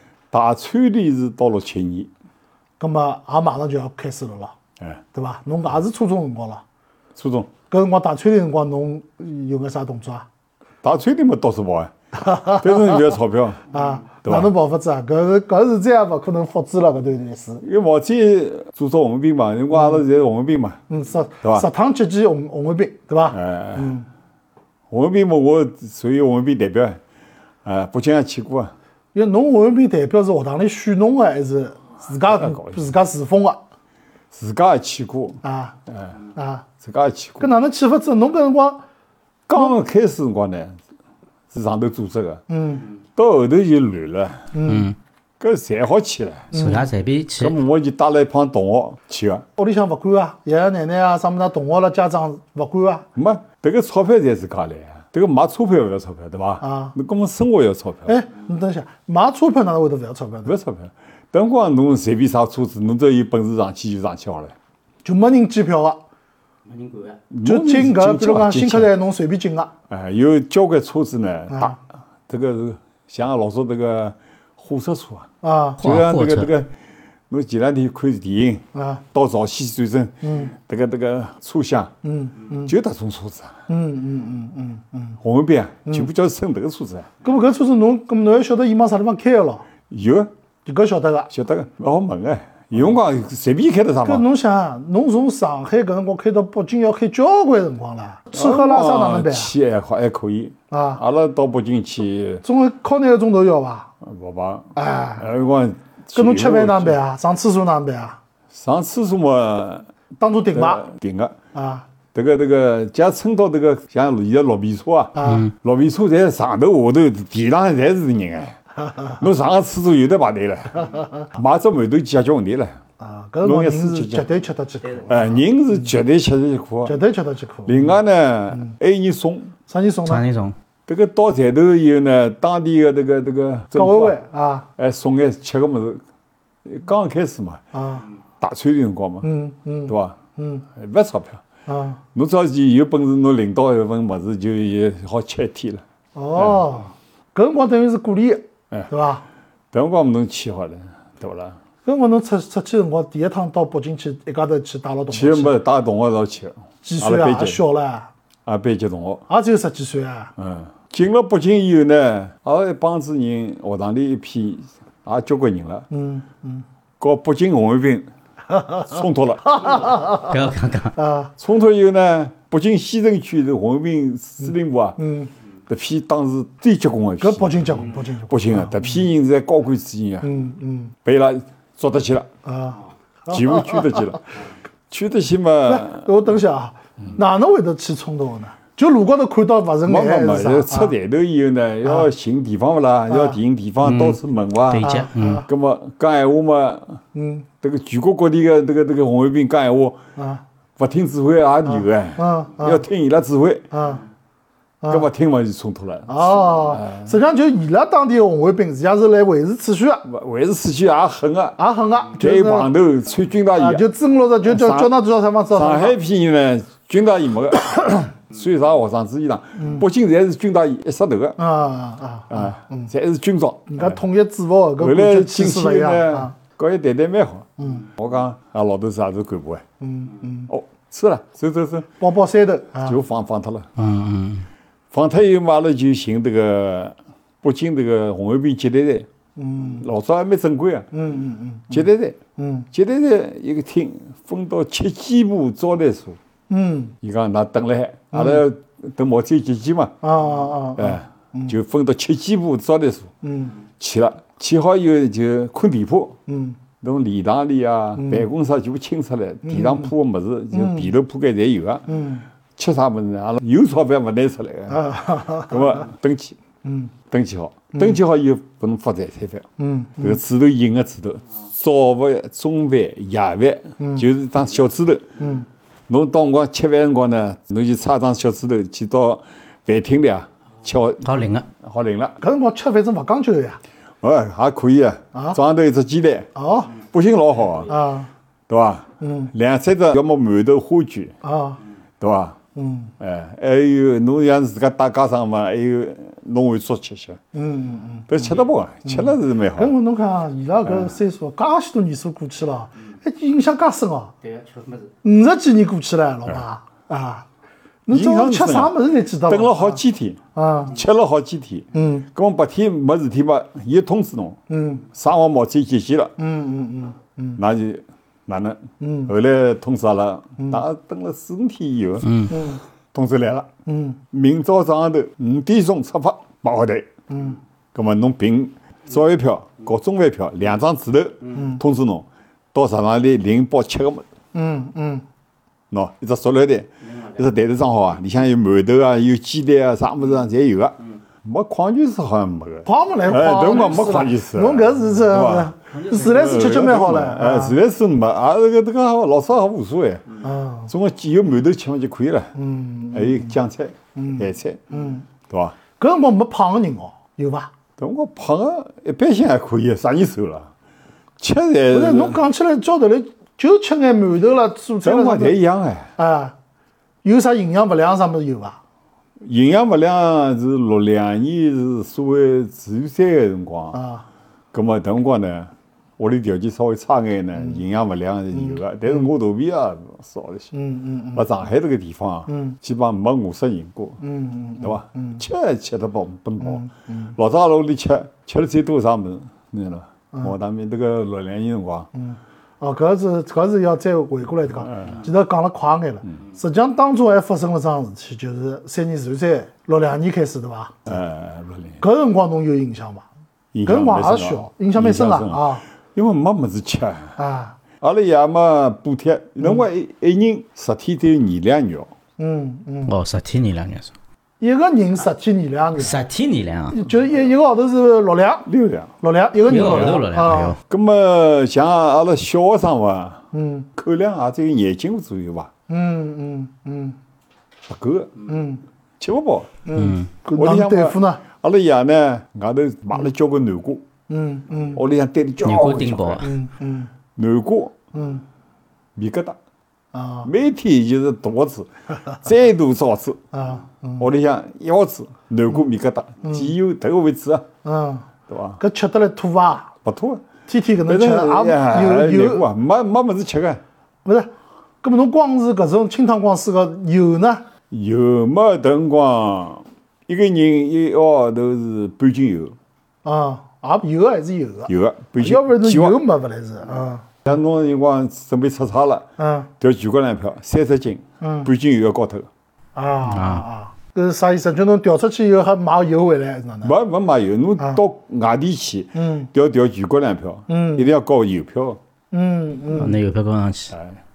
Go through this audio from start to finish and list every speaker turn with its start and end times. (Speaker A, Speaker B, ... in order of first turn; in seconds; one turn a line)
Speaker A: 0.3-2.1
Speaker B: 2.8-4.5
Speaker B: 5.1-6.6
Speaker A: 7.2-7.5
Speaker B: 7.7-10.3
Speaker A: 10.8-11.9
Speaker B: 12.1-13.1
Speaker A: 12.5-13.7
Speaker B: 13.7-17.6
Speaker A: 14.2-14.5
Speaker A: 17.6-20.8
Speaker B: 20.9-24.1
Speaker A: 23.3-23.9
Speaker A: 24.9-27.0
Speaker A: 27.6-28.7
Speaker B: 29.1-33.6
Speaker A: 32.2-32.8
Speaker A: 34.3-36.1
Speaker B: 35.4-35.8
Speaker B: 36.3-36.7
Speaker A: 36.8-37.5
Speaker B: 37.4-38.8
Speaker A: 39.5-40.8
Speaker A: 41.5-42.4
Speaker B: 42.5-42.9
Speaker A: 43.1-44.5
Speaker B: 44.5-44.9
Speaker C: 44.6-44.9
Speaker A: 45.4-46.5
Speaker B: 46.5-46.9
Speaker C: 46.5-47.6
Speaker A: 47.4-49.4
Speaker B: 49.6-53.1
Speaker A: 53.1-58.1
Speaker B: 56.6-57.0
Speaker B: 58.0-60.5
Speaker A: 60.4-64.5
Speaker B: 65.0-66.0
Speaker C: 66.7-67.2
Speaker A: 67.3-68.9
Speaker B: 67.4-69.7
Speaker A: 69.9-75.3
Speaker B: 71.5-71.8
Speaker B: 75.4-75.8
Speaker C: 75.8-76.5
Speaker A: 75.8-76.7
Speaker A: 77.3-81.9
Speaker B: 78.7-79.0
Speaker B: 80.2-80.5
Speaker B: 82.0-82.7
Speaker A: 82.6-83.5
Speaker B: 83.7-85.2
Speaker A: 85.2-87.1
Speaker B: 87.2-89.6
Speaker A: 89.9-90.3
Speaker B: 90.7-91.3
Speaker A: 91.3-94.2
Speaker B: 94.0-99.5
Speaker A: 98.3-102.4
Speaker B: 100.7-101.0
Speaker B: 102.4-103.9
Speaker A: 104.0-107.0
Speaker B: 104.7-105.3
Speaker B: 106.1-108.2
Speaker A: 108.5-109.8
Speaker B: 110.2-110.9
Speaker A: 110.5-111.3
Speaker B: 111.5-111.9
Speaker A: 112.1-118.6
Speaker B: 115.1-115.5
Speaker C: 115.2-115.5
Speaker A: 119.2-122.8
Speaker B: 120.8-121.2
Speaker B: 123.0-125.5
Speaker A: 123.4-124.3
Speaker A: 125.0-127.0
Speaker B: 126.8-128.0
Speaker A: 127.6-129.5
Speaker B: 129.7-130.2
Speaker C: 130.1-130.5
Speaker A: 130.9-134.2
Speaker B: 133.7-134.7
Speaker A: 134.8-136.0
Speaker A: 136.6-137.6
Speaker B: 137.7-138.0
Speaker A: 138.4-139.3
Speaker B: 139.2-140.6
Speaker A: 139.9-140.2
Speaker A: 140.7-141.4
Speaker B: 141.7-142.0
Speaker A: 142.1-145.8
Speaker B: 146.1-149.2
Speaker A: 146.3-146.7
Speaker A: 149.7-151.6
Speaker B: 151.8-155.6
Speaker A: 155.1-157.6
Speaker B: 156.8-158.1
Speaker A: 158.4-159.2
Speaker B: 159.3-160.3
Speaker A: 160.4-165.9
Speaker B: 165.9-166.6
Speaker A: 167.0-168.1
Speaker B: 168.5-168.9
Speaker A: 168.8-169.9
Speaker B: 169.4-170.3
Speaker C: 170.2-170.9
Speaker B: 170.9-171.3
Speaker A: 171.4-175.0
Speaker B: 175.0-175.3
Speaker A: 175.7-180.3
Speaker B: 177.2-179.0
Speaker B: 180.2-180.9
Speaker A: 181.0-182.3
Speaker B: 182.4-184.2
Speaker A: 183.3-184.2
Speaker A: 184.9-186.1
Speaker B: 185.7-190.9
Speaker A: 189.8-194.9
Speaker B: 193.1-193.4
Speaker C: 193.8-195.4
Speaker B: 194.8-195.5
Speaker A: 195.4-197.0
Speaker B: 197.1-197.5
Speaker A: 197.6-200.0
Speaker B: 200.2-200.4
Speaker A: 200.8-203.7
Speaker B: 201.7-202.8
Speaker B: 203.7-204.0
Speaker B: 204.8-205.1
Speaker A: 204.9-207.1
Speaker B: 206.1-210.0
Speaker A: 210.0-211.6
Speaker B: 211.6-212.7
Speaker A: 212.2-213.8
Speaker B: 213.6-216.0
Speaker A: 214.4-214.9
Speaker A: 215.5-221.4
Speaker B: 219.6-219.8
Speaker B: 221.4-222.9
Speaker A: 222.3-224.0
Speaker B: 223.7-226.3
Speaker A: 224.8-229.6
Speaker B: 227.6-227.9
Speaker B: 229.8-230.5
Speaker A: 230.5-231.9
Speaker B: 232.0-233.0
Speaker A: 232.8-233.7
Speaker C: 233.8-234.4
Speaker A: 234.9-239.1
Speaker B: 239.4-239.9
Speaker A: 239.6-240.9
Speaker B: 240.9-241.8
Speaker A: 241.7-242.2
Speaker B: 242.4-242.7
Speaker A: 242.7-246.2
Speaker B: 246.5-246.9
Speaker A: 247.0-249.9
Speaker B: 248.1-248.4
Speaker B: 250.0-251.5
Speaker A: 250.8-253.1
Speaker B: 253.2-253.5
Speaker A: 253.7-256.2
Speaker B: 256.3-256.6
Speaker A: 256.8-261.9
Speaker B: 258.0-258.2
Speaker B: 259.4-259.9
Speaker B: 260.5-260.9
Speaker B: 261.9-262.2
Speaker A: 262.6-266.4
Speaker B: 264.7-265.8
Speaker B: 266.6-266.9
Speaker A: 267.1-269.4
Speaker B: 267.7-268.0
Speaker B: 269.6-270.2
Speaker A: 270.0-275.1
Speaker B: 273.8-274.1
Speaker B: 275.2-275.4
Speaker A: 275.9-281.1
Speaker C: 281.0-281.5
Speaker A: 281.6-282.2
Speaker B: 282.2-283.6
Speaker A: 284.0-287.7
Speaker B: 286.3-286.8
Speaker B: 287.7-288.1
Speaker A: 288.5-291.1
Speaker B: 289.0-289.3
Speaker B: 291.2-291.6
Speaker A: 292.0-292.4
Speaker B: 292.5-292.9
Speaker A: 293.0-297.2
Speaker B: 297.3-304.1
Speaker A: 298.1-299.7
Speaker A: 300.6-300.9
Speaker C: 304.2-304.9
Speaker B: 305.0-307.3
Speaker B: 307.9-309.8
Speaker A: 307.9-316.1
Speaker B: 310.3-310.8
Speaker B: 311.7-312.1
Speaker B: 314.5-314.8
Speaker B: 316.2-317.4
Speaker A: 317.4-322.3
Speaker B: 318.8-319.1
Speaker B: 320.4-320.6
Speaker C: 322.1-322.3
Speaker B: 322.3-322.6
Speaker A: 322.9-323.5
Speaker B: 323.6-324.0
Speaker A: 324.1-326.9
Speaker B: 327.1-327.4
Speaker A: 327.7-334.0
Speaker B: 331.3-331.6
Speaker B: 334.3-335.0
Speaker A: 335.7-352.3
Speaker B: 342.6-347.6
Speaker B: 350.2-350.7
Speaker B: 352.3-353.3
Speaker A: 352.9-354.7
Speaker B: 353.9-355.0
Speaker A: 355.3-355.6
Speaker B: 355.8-357.5
Speaker A: 357.8-360.5
Speaker A: 361.2-362.2
Speaker B: 361.7-365.4
Speaker A: 364.8-365.9
Speaker B: 366.0-366.3
Speaker B: 367.0-368.6
Speaker A: 369.2-373.8
Speaker B: 373.7-374.0
Speaker A: 374.5-380.5
Speaker B: 378.3-378.6
Speaker B: 380.5-381.2
Speaker A: 381.1-384.0
Speaker B: 382.3-382.6
Speaker B: 384.0-385.2
Speaker A: 384.6-391.9
Speaker B: 386.4-387.1
Speaker B: 391.9-400.9
Speaker A: 394.7-395.0
Speaker A: 400.9-401.8
Speaker B: 401.8-403.1
Speaker A: 403.5-407.2
Speaker B: 403.6-405.6
Speaker B: 407.2-407.6
Speaker A: 407.8-411.9
Speaker B: 412.2-412.9
Speaker C: 412.9-413.9
Speaker B: 414.4-416.0
Speaker C: 415.8-416.8
Speaker B: 416.7-418.5
Speaker A: 418.4-418.9
Speaker B: 419.0-420.6
Speaker C: 419.5-420.6
Speaker A: 420.7-423.2
Speaker B: 423.3-423.7
Speaker A: 423.7-425.5
Speaker B: 425.7-426.9
Speaker A: 427.7-428.1
Speaker B: 428.2-428.6
Speaker A: 429.0-429.6
Speaker B: 429.6-431.2
Speaker C: 429.8-430.1
Speaker A: 430.4-433.8
Speaker B: 434.1-434.8
Speaker A: 434.7-436.3
Speaker C: 435.4-436.3
Speaker B: 436.2-436.9
Speaker A: 437.1-437.8
Speaker B: 437.9-438.2
Speaker A: 438.9-439.4
Speaker B: 439.9-440.3
Speaker A: 440.2-443.2
Speaker B: 443.3-444.1
Speaker A: 444.0-447.5
Speaker B: 446.2-446.5
Speaker B: 447.6-448.1
Speaker A: 448.3-448.6
Speaker B: 448.6-449.7
Speaker A: 449.8-450.3
Speaker B: 450.5-452.5
Speaker A: 450.8-453.6
Speaker B: 454.0-454.3
Speaker B: 454.8-457.5
Speaker A: 457.7-462.6
Speaker B: 463.0-467.2
Speaker A: 464.7-466.0
Speaker A: 467.2-469.1
Speaker B: 469.2-469.5
Speaker A: 469.6-472.3
Speaker B: 471.2-471.5
Speaker B: 472.7-476.7
Speaker C: 473.1-473.4
Speaker A: 476.6-481.8
Speaker B: 478.9-479.3
Speaker B: 480.5-480.9
Speaker B: 482.1-482.9
Speaker C: 482.7-483.7
Speaker A: 483.7-484.0